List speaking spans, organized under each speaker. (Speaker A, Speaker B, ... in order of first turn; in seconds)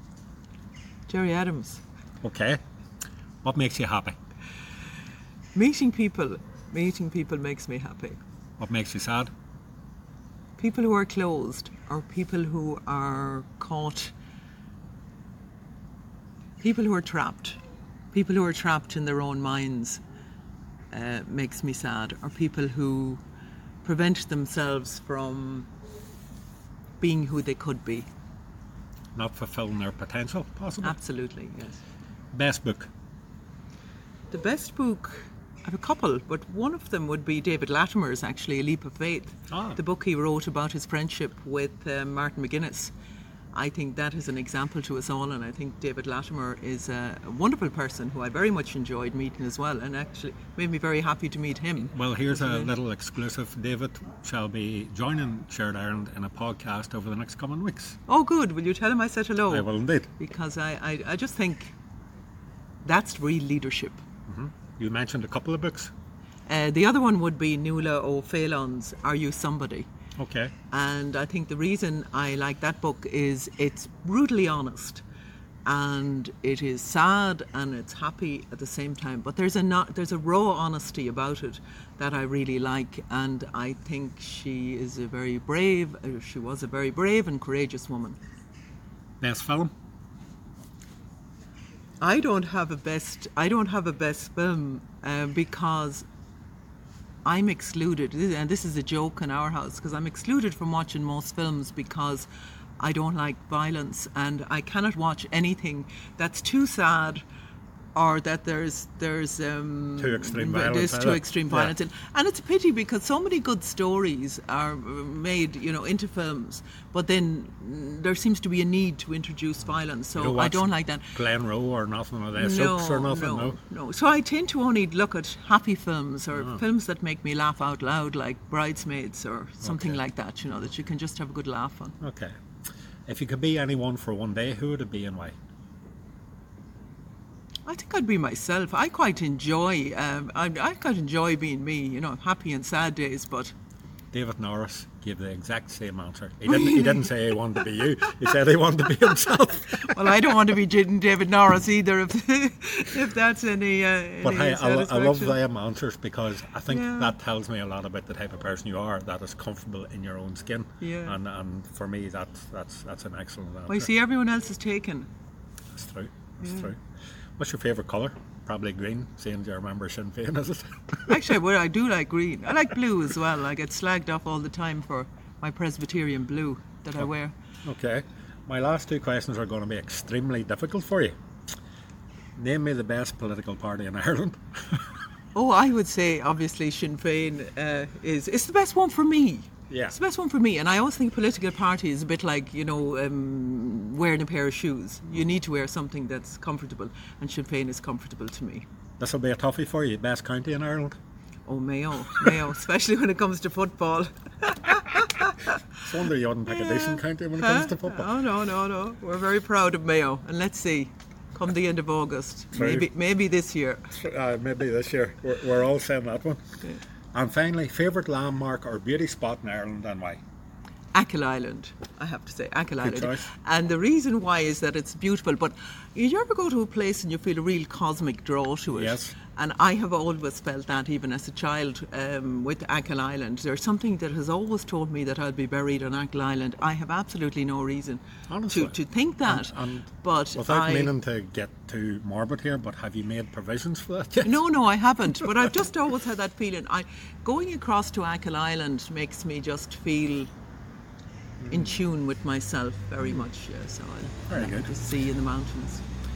Speaker A: 1.1-1.8, 5.5-8.2, 10.6-14.1, 16.6-17.6, 18.1-20.0, 20.9-23.2, 23.8-25.7, 27.0-28.1, 30.8-31.8, 34.3-42.9, 43.5-52.7, 58.1-61.7, 62.8-64.0, 66.5-69.9, 70.7-75.0, 75.6-88.2, 92.0-96.0, 97.2-102.3, 102.8-107.2, 107.9-121.1, 122.3-131.9, 137.7-143.5, 146.5-147.3, 149.8-155.4, 156.7-157.1, 160.8-161.2, 163.7-165.1, 166.4-166.7, 171.1-177.3, 185.3-198.6, 201.4-205.6, 206.5-213.9, 220.9-240.9, 244.2-250.3, 251.5-255.8
Speaker B: 2.2-2.6, 3.4-4.2, 8.6-9.3, 29.1-30.9, 32.3-32.9, 39.5-39.8, 51.9-58.0, 59.5-60.1, 64.3-65.9, 70.2-70.5, 89.2-89.7, 110.0-111.7, 120.2-123.6, 126.3-126.6, 129.6-130.0, 132.0-132.3, 133.1-135.3, 144.1-150.3, 154.2-163.9, 165.7-166.8, 167.4-171.1, 177.6-181.1, 182.3-184.8, 189.7-189.9, 199.0-200.9, 205.8-208.1, 212.5-212.9, 213.9-216.4, 217.1-220.2, 222.8-223.3, 228.7-229.2, 238.3-244.4, 251.4-251.8, 254.3-254.7